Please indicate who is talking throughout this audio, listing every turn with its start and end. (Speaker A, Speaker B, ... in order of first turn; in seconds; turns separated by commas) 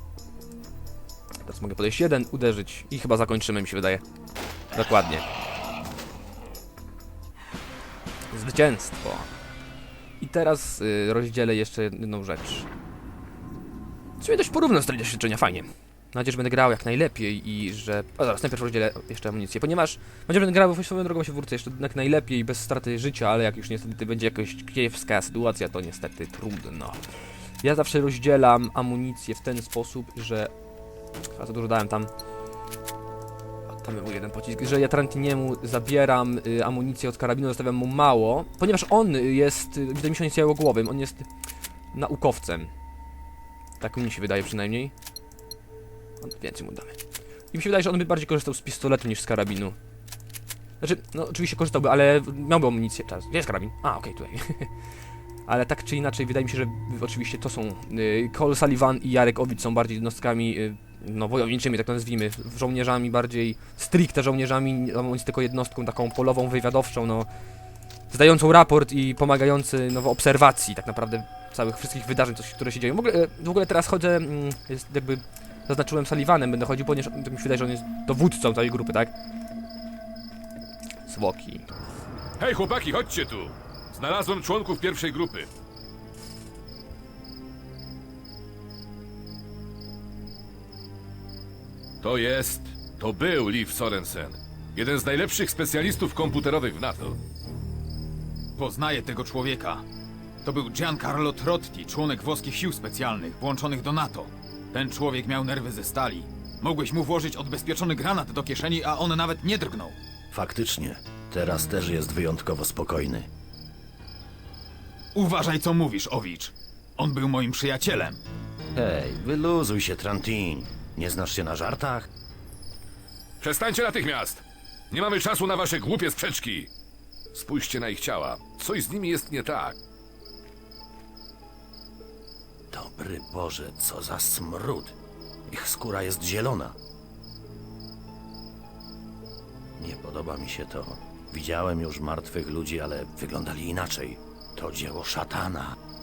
Speaker A: 1.4-4.0, Speaker A: 4.7-5.2, Speaker A: 8.3-9.3, Speaker A: 10.2-12.7, Speaker A: 14.2-27.0, Speaker A: 27.6-30.5, Speaker A: 31.3-32.1, Speaker A: 33.8-41.3, Speaker A: 41.9-42.7, Speaker A: 43.8-44.9, Speaker A: 46.2-47.0, Speaker A: 47.5-49.7, Speaker A: 50.8-54.7, Speaker A: 55.5-67.3, Speaker A: 68.1-79.1, Speaker A: 81.1-81.7, Speaker B: 82.4-85.5, Speaker B: 92.0-97.2, Speaker C: 98.6-99.8, Speaker C: 100.4-110.0, Speaker D: 110.3-113.3, Speaker C: 115.1-118.2, Speaker D: 118.7-122.1, Speaker B: 123.4-126.7, Speaker B: 127.3-129.7, Speaker D: 132.7-134.9, Speaker D: 135.5-136.8, Speaker D: 139.8-145.8